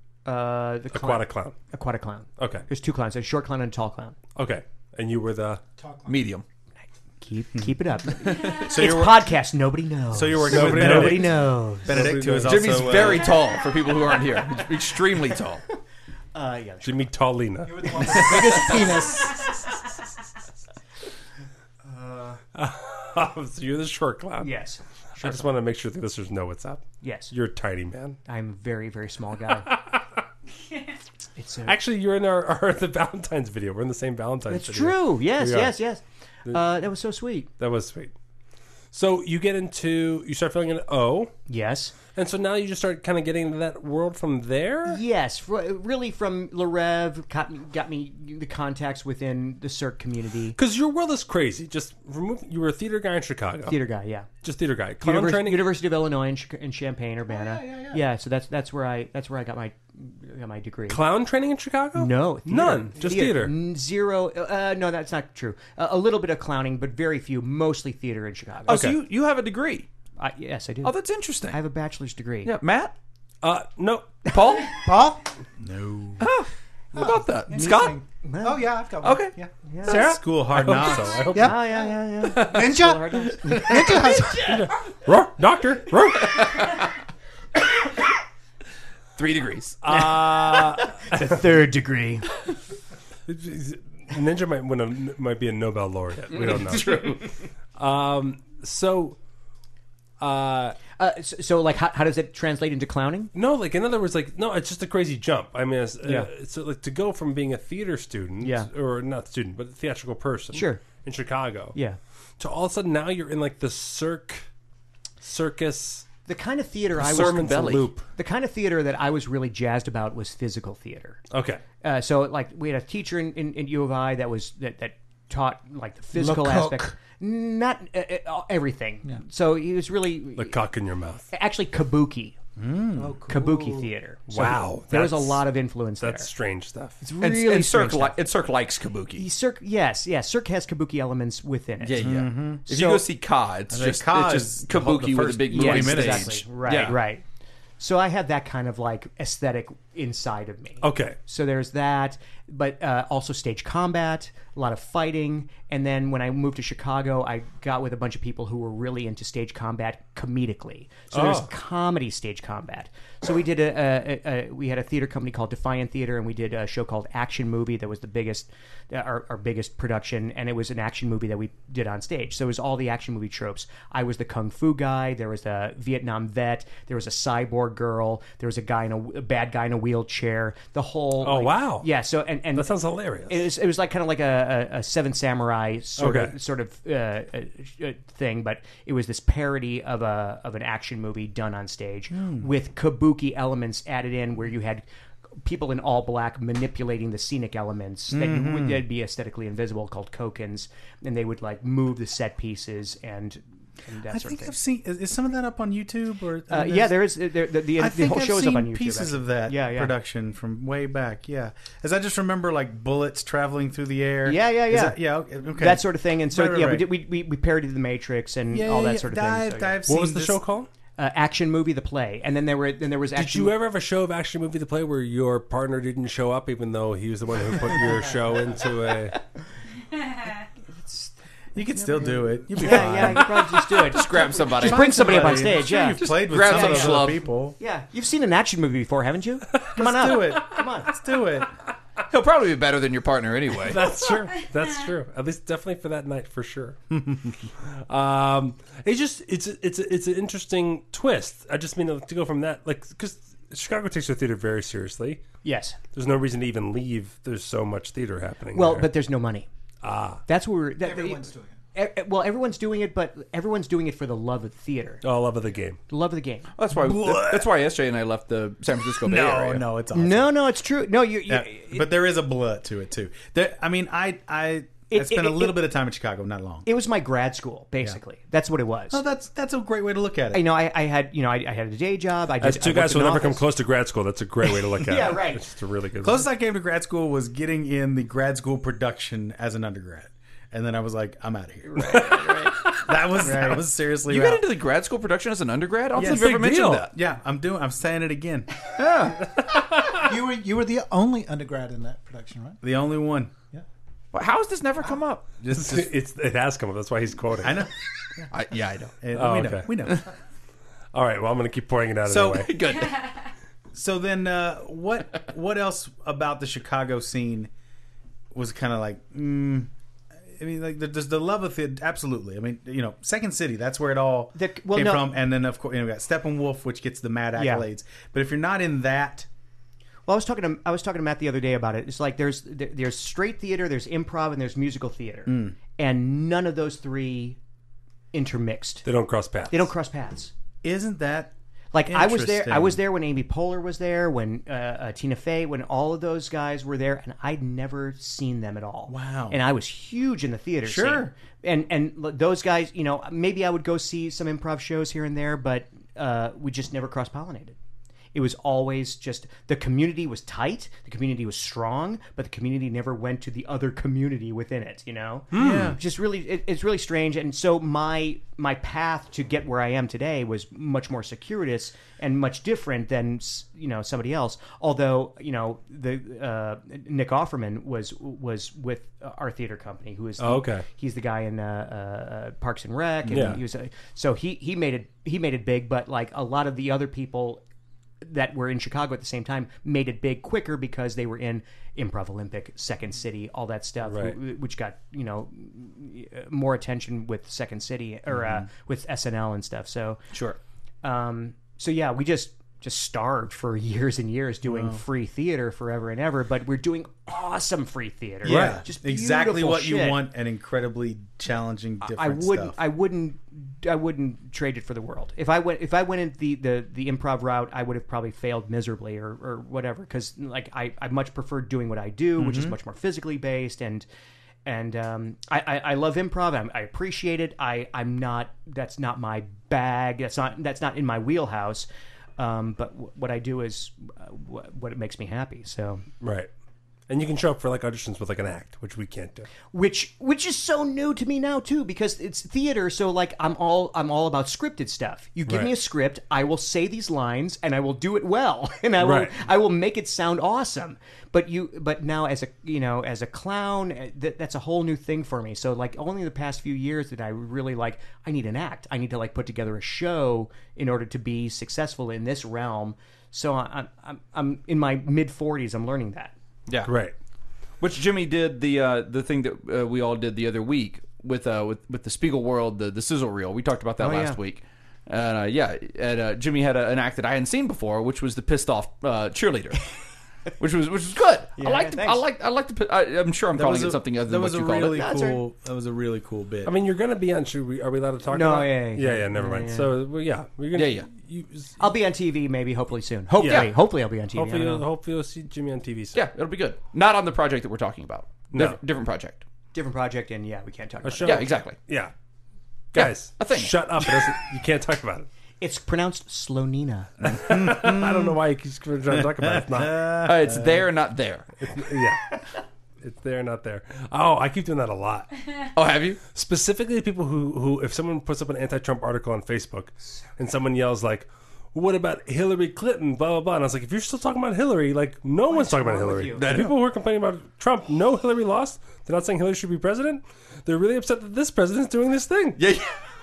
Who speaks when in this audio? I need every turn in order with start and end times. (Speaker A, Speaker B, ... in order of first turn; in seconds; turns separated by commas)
Speaker A: 0.2-4.2, Speaker B: 0.9-1.6, Speaker B: 2.4-2.6, Speaker B: 4.4-5.6, Speaker C: 5.8-6.2, Speaker D: 6.1-6.5, Speaker A: 7.2-12.1, Speaker E: 8.4-9.3, Speaker E: 10.1-13.3, Speaker B: 10.5-13.2, Speaker D: 12.5-15.6, Speaker A: 16.3-17.1, Speaker B: 16.8-18.2, Speaker C: 17.6-19.6, Speaker A: 17.9-19.3, Speaker A: 21.9-22.4, Speaker B: 22.6-24.5, Speaker A: 24.4-25.4, Speaker B: 25.2-28.2, Speaker A: 27.0-27.3, Speaker A: 28.3-29.7, Speaker B: 29.7-30.2, Speaker A: 31.4-31.8, Speaker B: 31.7-35.7, Speaker A: 34.5-37.5, Speaker B: 37.6-38.1, Speaker B: 38.9-41.3, Speaker A: 41.5-42.0, Speaker B: 42.1-45.0, Speaker A: 44.9-50.6, Speaker B: 50.6-53.8, Speaker A: 53.7-54.3, Speaker B: 54.4-55.7, Speaker A: 55.0-61.0, Speaker C: 57.3-58.0, Speaker B: 60.9-63.5, Speaker A: 62.0-68.8, Speaker D: 68.7-69.9, Speaker B: 68.7-69.0, Speaker A: 70.2-71.0, Speaker D: 70.8-71.6, Speaker A: 71.5-72.5, Speaker D: 72.5-73.0, Speaker B: 73.4-74.2, Speaker D: 74.3-74.8, Speaker C: 74.8-75.2, Speaker E: 75.6-76.2, Speaker D: 76.2-78.0, Speaker C: 77.0-80.2, Speaker A: 77.5-78.7, Speaker D: 79.0-79.3, Speaker A: 79.7-80.1, Speaker E: 79.9-81.5, Speaker B: 80.5-81.3, Speaker C: 81.3-81.7, Speaker A: 81.3-84.5, Speaker C: 82.3-84.5, Speaker B: 82.3-82.7, Speaker B: 84.3-86.6, Speaker D: 86.4-86.7, Speaker D: 89.2-89.8, Speaker B: 89.8-91.4, Speaker A: 89.9-92.3, Speaker B: 93.3-99.2, Speaker B: 100.2-100.8, Speaker A: 101.0-103.3, Speaker B: 103.3-111.8, Speaker A: 106.0-106.3, Speaker A: 108.4-108.7, Speaker A: 110.5-110.8, Speaker B: 112.4-114.5, Speaker B: 115.2-116.1, Speaker A: 116.3-121.2, Speaker D: 117.0-117.9, Speaker B: 117.0-118.0, Speaker B: 121.3-121.6, Speaker A: 121.8-130.6, Speaker C: 126.2-127.0, Speaker B: 130.4-131.3, Speaker A: 131.3-132.4, Speaker E: 132.6-133.2, Speaker C: 133.0-133.9, Speaker A: 133.3-136.3, Speaker B: 134.3-135.4, Speaker B: 136.0-137.0, Speaker A: 137.0-138.2, Speaker D: 137.2-139.3, Speaker A: 139.2-143.1, Speaker D: 141.8-147.0, Speaker E: 142.0-142.6, Speaker E: 143.7-146.5, Speaker A: 145.5-147.2, Speaker A: 147.8-182.7, Speaker B: 150.8-151.2, Speaker B: 161.1-161.5, Speaker B: 181.2-181.9, Speaker B: 182.6-183.5, Speaker A: 183.3-194.8, Speaker B: 186.0-186.3, Speaker E: 192.1-192.5, Speaker A: 195.4-204.5, Speaker E: 198.1-198.8, Speaker E: 204.1-206.9, Speaker A: 206.5-209.9, Speaker E: 207.8-216.9, Speaker A: 214.2-215.0, Speaker A: 215.6-219.8, Speaker E: 218.5-220.4, Speaker B: 219.9-220.7, Speaker A: 221.0-223.6, Speaker B: 223.2-229.2, Speaker A: 230.7-231.1, Speaker E: 231.6-233.5, Speaker A: 231.8-240.9, Speaker D: 233.0-237.2, Speaker E: 234.5-237.6, Speaker E: 239.8-241.5, Speaker D: 242.1-243.9, Speaker B: 243.7-247.0, Speaker B: 247.9-255.2, Speaker A: 255.4-255.8, Speaker B: 255.9-258.9, Speaker A: 258.5-259.5, Speaker B: 259.8-260.2, Speaker A: 260.3-265.0, Speaker C: 260.8-261.5, Speaker B: 265.0-265.8, Speaker A: 265.9-266.5, Speaker D: 266.6-269.6, Speaker E: 266.7-267.5, Speaker E: 269.0-270.3, Speaker A: 269.9-271.9, Speaker E: 271.3-276.7, Speaker A: 274.9-275.6, Speaker A: 276.7-279.0, Speaker E: 278.9-280.5, Speaker A: 280.3-283.4, Speaker B: 282.4-286.3, Speaker A: 284.4-285.4, Speaker E: 286.0-292.1, Speaker A: 291.7-292.6, Speaker B: 291.8-292.9, Speaker E: 292.7-294.5, Speaker A: 293.2-293.6, Speaker D: 294.1-296.9, Speaker E: 295.9-298.6, Speaker B: 296.0-296.9, Speaker D: 298.7-299.2, Speaker B: 299.4-300.1, Speaker C: 299.9-302.6, Speaker E: 302.6-303.3, Speaker D: 304.1-305.3, Speaker E: 305.4-305.9, Speaker B: 305.5-307.7, Speaker E: 307.4-308.3, Speaker D: 308.3-308.9, Speaker E: 309.0-310.1, Speaker B: 309.1-310.0, Speaker B: 310.9-312.5, Speaker E: 312.1-312.5, Speaker D: 312.4-313.1, Speaker E: 313.7-317.5, Speaker E: 318.3-319.7, Speaker E: 320.4-329.3, Speaker A: 324.4-325.1, Speaker A: 327.4-327.7, Speaker A: 330.1-337.4, Speaker E: 335.3-335.6, Speaker A: 338.1-338.9, Speaker B: 338.9-339.7, Speaker A: 339.5-340.3, Speaker E: 340.6-341.3, Speaker A: 341.7-357.6, Speaker E: 341.9-342.8, Speaker E: 348.9-349.4, Speaker E: 350.6-351.1, Speaker A: 358.1-387.4, Speaker B: 365.3-365.8, Speaker E: 365.3-365.8, Speaker B: 380.2-380.6, Speaker E: 383.1-383.4, Speaker B: 383.1-383.4, Speaker A: 388.0-400.0, Speaker B: 393.9-394.2, Speaker E: 398.1-398.5, Speaker D: 400.1-400.4, Speaker A: 400.8-410.1, Speaker E: 404.4-404.8, Speaker E: 408.2-412.6, Speaker B: 408.2-408.6, Speaker A: 411.8-423.9, Speaker E: 422.2-422.6, Speaker A: 424.4-435.8, Speaker B: 436.0-436.3, Speaker B: 436.9-439.3, Speaker A: 439.5-466.1, Speaker B: 445.3-445.5, Speaker B: 448.8-449.1, Speaker B: 466.6-466.9, Speaker D: 467.6-479.7, Speaker A: 473.8-474.2, Speaker D: 480.4-484.8, Speaker A: 481.4-482.0, Speaker E: 483.3-486.5, Speaker A: 484.7-485.2, Speaker B: 486.4-491.6, Speaker A: 488.1-489.8, Speaker D: 490.6-490.9, Speaker A: 491.6-494.6, Speaker B: 493.2-496.0, Speaker D: 493.2-493.5, Speaker D: 495.9-499.2, Speaker B: 498.3-498.6, Speaker A: 499.5-501.2, Speaker B: 500.9-501.9, Speaker D: 501.0-501.6, Speaker B: 502.7-505.1, Speaker D: 502.8-504.1, Speaker A: 505.4-507.1, Speaker E: 507.0-508.2, Speaker B: 507.0-509.8, Speaker E: 508.9-510.7, Speaker D: 510.1-511.3, Speaker B: 511.4-512.1, Speaker B: 512.8-515.1, Speaker D: 515.6-516.0, Speaker B: 516.1-532.4, Speaker A: 525.3-526.2, Speaker D: 526.2-526.5, Speaker D: 532.4-532.7